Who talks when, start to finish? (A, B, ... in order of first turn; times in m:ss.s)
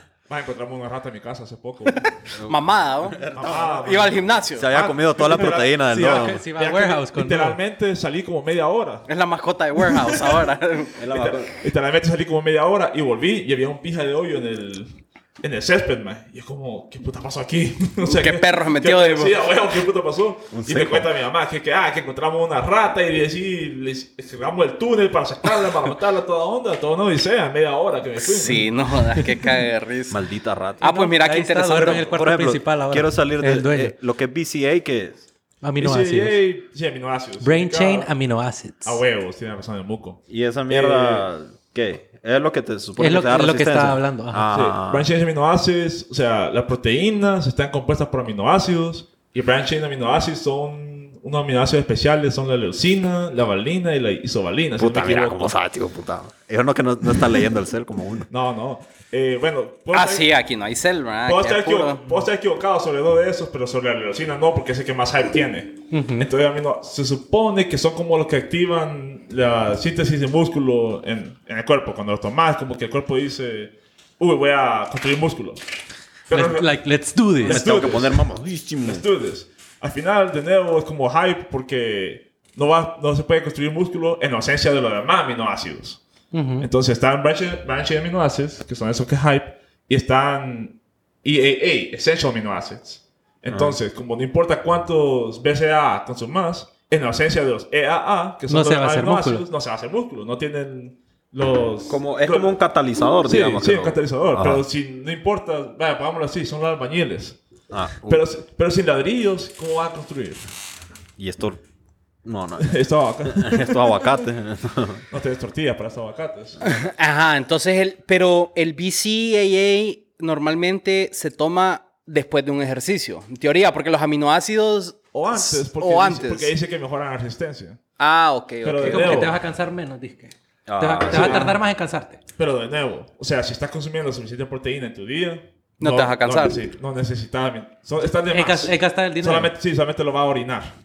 0:00.3-0:02.1 A
0:02.4-0:03.8 B
0:02.4-0:03.2 C
0:03.3-0:09.1 A
0:03.8-0:04.8 C
0:04.5-0:06.4 B
0:05.9-0:07.6 D
0:09.1-0:10.9 C
0:10.9-0:11.6 B
0:11.1-0:28.7 A
0:18.0-0:19.4 C
0:20.5-0:21.1 B
0:28.2-0:30.2 C
0:30.1-0:30.8 B
0:30.8-0:32.2 C
0:30.8-0:33.9 D
0:32.1-0:35.2 B
0:35.6-0:36.4 D
0:35.8-0:38.1 A
0:37.4-0:39.0 D
0:38.8-0:41.2 A
0:40.3-0:45.1 B
0:43.0-0:44.5 D
0:44.5-0:55.5 A
0:54.8-0:58.3 B
0:58.3-1:00.3 A
0:59.9-1:02.2 C
1:01.2-1:15.6 A
1:05.9-1:06.3 D
1:16.3-1:16.7 A
1:16.3-1:17.6 D
1:17.4-1:18.2 A
1:17.4-1:19.0 B
1:18.8-1:26.0 A
1:26.3-1:26.7 D
1:26.6-1:42.5 A
1:33.5-1:33.8 B
1:38.5-1:39.4 D
1:41.9-1:44.6 B
1:43.2-1:47.4 A
1:47.7-1:48.2 B
1:48.1-1:50.4 A
1:51.2-1:51.6 B
1:52.2-1:55.0 B
1:52.6-1:54.2 A
1:55.1-1:56.6 A
1:56.6-2:06.5 C
2:05.1-2:07.8 A
2:08.0-2:09.3 C
2:08.6-2:09.4 A
2:08.8-2:12.2 D
2:10.7-2:11.5 B
2:11.1-2:11.6 A
2:12.4-2:20.7 A
2:15.8-2:16.6 C
2:18.3-2:19.5 D